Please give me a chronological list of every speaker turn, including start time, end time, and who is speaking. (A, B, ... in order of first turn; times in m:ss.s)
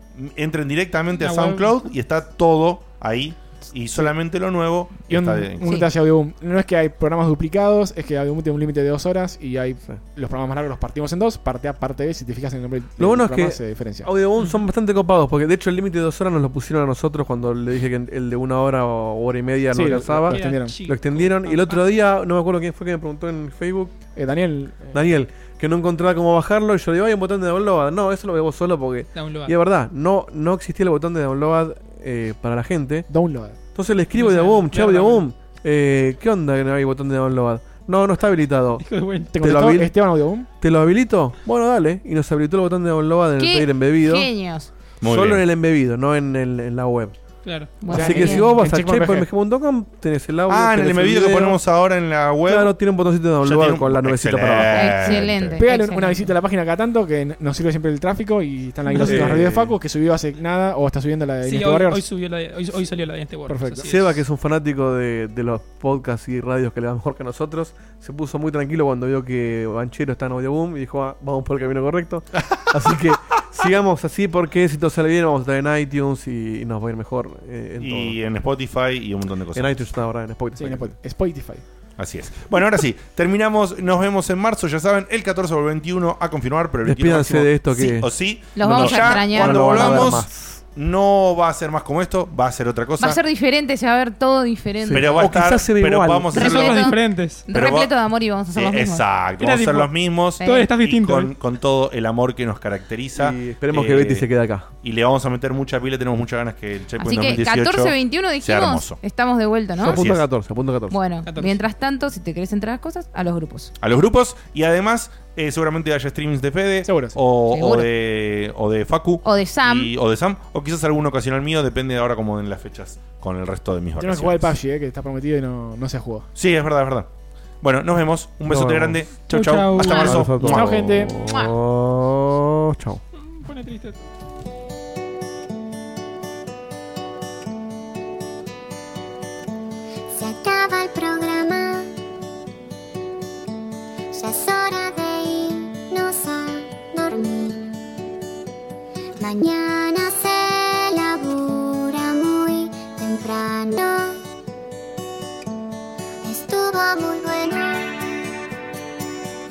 0:00.1-0:05.7 A
0:01.2-0:01.7 B
0:05.1-0:14.1 C
0:05.6-0:05.9 D
0:13.0-0:24.0 E
0:19.7-0:20.8 C
0:20.3-0:21.8 B
0:24.2-0:25.0 C
0:24.9-0:33.1 E
0:29.1-0:29.5 B
0:33.1-0:33.6 C
0:33.7-0:38.8 E
0:34.1-0:35.2 B
0:38.8-0:39.3 B
0:39.3-0:40.5 C
0:39.4-0:39.9 E
0:40.6-0:44.3 E
0:43.4-0:44.7 D
0:45.0-0:45.4 A
0:45.0-0:47.2 E
0:47.4-0:47.7 B
0:47.8-0:48.5 D
0:47.9-0:49.3 C
0:47.9-0:51.6 E
0:50.5-0:52.8 A
0:52.4-0:55.2 E
0:53.4-0:55.6 A
0:54.7-0:56.3 D
0:55.6-1:02.0 C
0:58.9-0:59.3 B
0:59.0-0:59.8 E
1:01.4-1:04.0 B
1:03.5-1:03.9 C
1:03.9-1:18.2 E
1:17.8-1:19.8 A
1:19.5-1:20.9 E
1:20.6-1:21.6 C
1:22.0-1:33.2 A
1:26.8-1:30.6 E
1:28.5-1:30.2 D
1:33.0-1:35.2 D
1:34.8-1:36.4 E
1:34.9-1:36.9 A
1:36.3-1:37.4 B
1:36.3-1:39.0 D
1:37.5-1:37.9 A
1:38.5-1:49.0 A
1:39.4-1:41.3 B
1:40.4-1:40.7 D
1:43.1-1:44.7 E
1:47.0-1:50.0 D
1:49.8-1:51.0 E
1:49.8-1:50.2 A
1:50.9-1:53.7 D
1:51.2-1:51.6 B
1:53.8-2:04.5 A
1:56.8-1:57.2 C
1:57.5-1:57.9 D
1:59.2-1:59.9 D
2:04.0-2:06.3 C
2:06.3-2:07.1 A
2:07.6-2:10.7 A
2:08.5-2:09.1 E
2:09.3-2:10.2 B
2:09.8-2:13.0 E
2:09.8-2:10.1 D
2:10.4-2:11.1 C
2:11.3-2:11.5 D
2:13.3-2:14.0 B
2:20.1-2:21.9 F
2:24.1-2:27.9 F
2:29.2-2:34.2 F
2:36.2-2:38.2 F